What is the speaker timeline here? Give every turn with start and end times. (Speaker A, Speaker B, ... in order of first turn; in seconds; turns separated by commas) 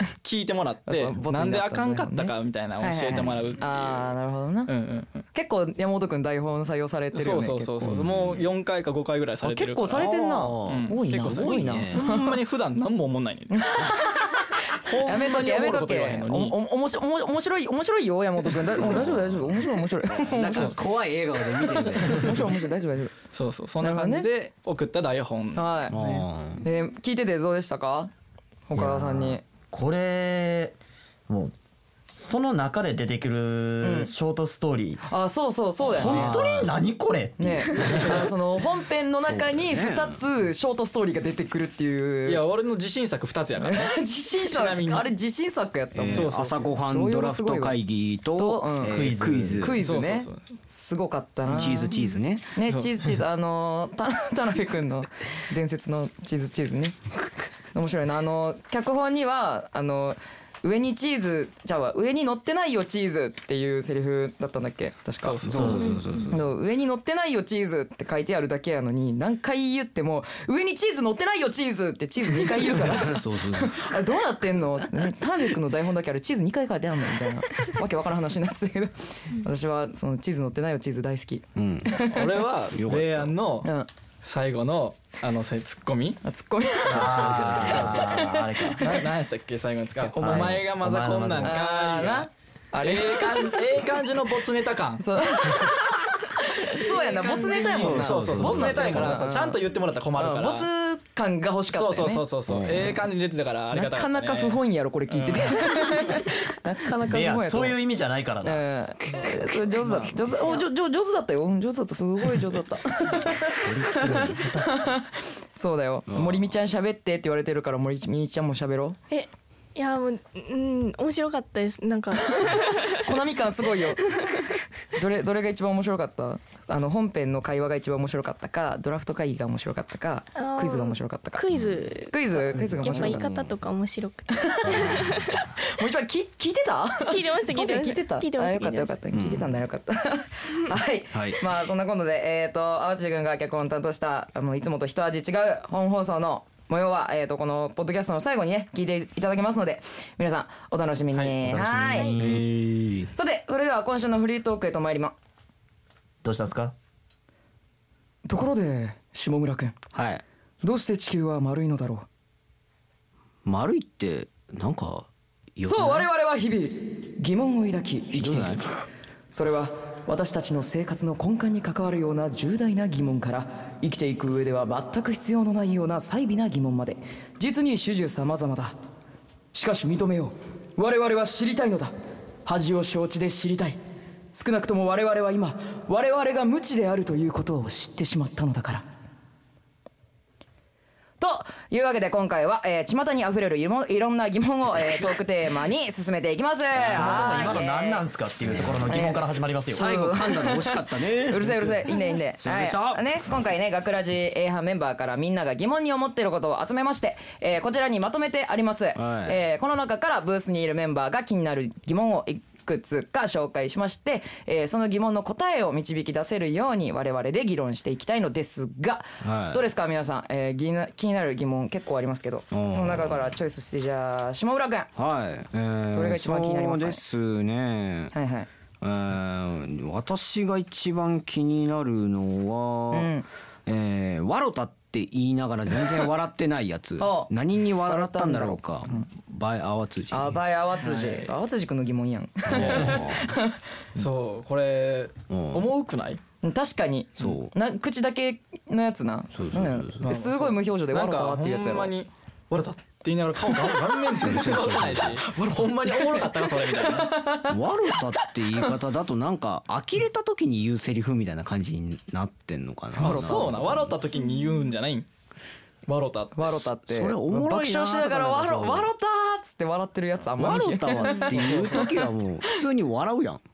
Speaker A: 0.2-5.2, Speaker B: 0.9-4.7, Speaker C: 3.1-3.6, Speaker B: 5.3-7.9, Speaker A: 7.1-13.9, Speaker C: 7.8-8.5, Speaker B: 9.4-12.4, Speaker C: 9.9-12.0, Speaker B: 13.5-20.8, Speaker A: 14.7-16.6, Speaker C: 18.7-22.4, Speaker B: 21.9-23.1, Speaker A: 23.3-26.3, Speaker B: 23.8-24.3, Speaker B: 25.5-25.9, Speaker C: 25.9-26.6, Speaker B: 26.6-28.1, Speaker B: 28.7-29.4, Speaker D: 28.7-30.8, Speaker D: 31.3-31.5, Speaker D: 32.1-35.0, Speaker B: 33.8-34.1, Speaker B: 35.0-36.4, Speaker D: 35.8-38.3, Speaker C: 36.0-36.7, Speaker B: 37.4-42.4, Speaker C: 39.3-40.2, Speaker A: 42.2-45.1, Speaker B: 43.6-47.8, Speaker C: 45.9-49.8, Speaker A: 46.0-46.7, Speaker B: 48.4-51.9, Speaker D: 48.8-49.7, Speaker A: 49.8-50.6, Speaker C: 51.5-52.5, Speaker B: 52.5-57.0, Speaker A: 52.7-53.0, Speaker B: 57.7-82.3, Speaker A: 65.2-65.9, Speaker C: 65.4-66.5, Speaker D: 65.6-65.9, Speaker E: 65.7-66.3, Speaker C: 72.3-73.9, Speaker C: 81.5-82.0, Speaker A: 82.0-83.7, Speaker C: 82.7-83.3, Speaker A: 84.2-86.2, Speaker B: 86.2-89.0, Speaker D: 86.9-89.0, Speaker C: 86.9-88.1, Speaker A: 87.0-92.3, Speaker B: 90.0-90.4, Speaker D: 90.2-91.6, Speaker C: 90.2-90.6, Speaker B: 91.4-93.8, Speaker A: 92.8-95.0, Speaker B: 95.0-99.6, Speaker A: 96.8-100.7, Speaker C: 97.5-99.2, Speaker B: 100.1-102.2, Speaker A: 101.7-106.0, Speaker C: 102.5-103.0, Speaker B: 103.7-107.8, Speaker D: 107.1-108.6, Speaker B: 108.4-119.0, Speaker A: 109.8-110.3, Speaker D: 113.5-114.9, Speaker C: 116.1-116.5, Speaker E: 119.1-123.0, Speaker B: 122.9-124.0, Speaker B: 124.9-131.4, Speaker E: 130.3-135.4, Speaker B: 132.1-133.2, Speaker C: 132.5-133.6, Speaker B: 134.4-134.8, Speaker C: 134.7-135.4, Speaker B: 135.7-152.1, Speaker E: 137.1-138.9, Speaker C: 139.1-139.6, Speaker C: 141.1-141.4, Speaker D: 151.4-152.4, Speaker C: 152.2-153.1, Speaker B: 153.1-155.1, Speaker D: 156.2-156.7, Speaker B: 158.2-159.7, Speaker C: 159.9-160.2, Speaker B: 160.6-162.1, Speaker C: 163.4-166.1, Speaker B: 165.7-168.6, Speaker C: 168.2-168.8, Speaker B: 169.3-178.7, Speaker B: 179.5-181.9, Speaker B: 182.4-183.8, Speaker B: 184.3-188.8, Speaker B: 191.2-198.0, Speaker C: 196.8-197.6, Speaker D: 196.8-199.9, Speaker C: 198.4-198.9, Speaker B: 198.9-224.9, Speaker C: 199.7-203.0, Speaker C: 208.9-209.4, Speaker C: 219.2-219.6, Speaker C: 222.5-223.3, Speaker C: 224.9-228.1, Speaker B: 225.9-227.0, Speaker B: 228.1-228.5, Speaker C: 228.8-233.1, Speaker B: 232.9-233.2, Speaker C: 233.7-240.4, Speaker B: 237.0-237.3, Speaker B: 237.8-239.1, Speaker B: 240.1-243.6, Speaker A: 240.8-241.3, Speaker C: 242.5-243.3, Speaker A: 242.6-242.9, Speaker A: 243.9-246.2, Speaker C: 245.3-245.7, Speaker B: 246.4-251.9, Speaker C: 247.2-247.5, Speaker C: 249.3-250.0, Speaker A: 250.0-257.2, Speaker B: 253.5-254.3, Speaker C: 254.2-255.2, Speaker B: 255.3-258.7, Speaker C: 257.5-263.9, Speaker A: 263.0-265.1, Speaker B: 263.0-263.6, Speaker E: 264.2-264.5, Speaker A: 265.9-266.7, Speaker B: 266.3-272.6, Speaker C: 266.8-268.9, Speaker C: 270.4-273.4, Speaker A: 271.5-271.8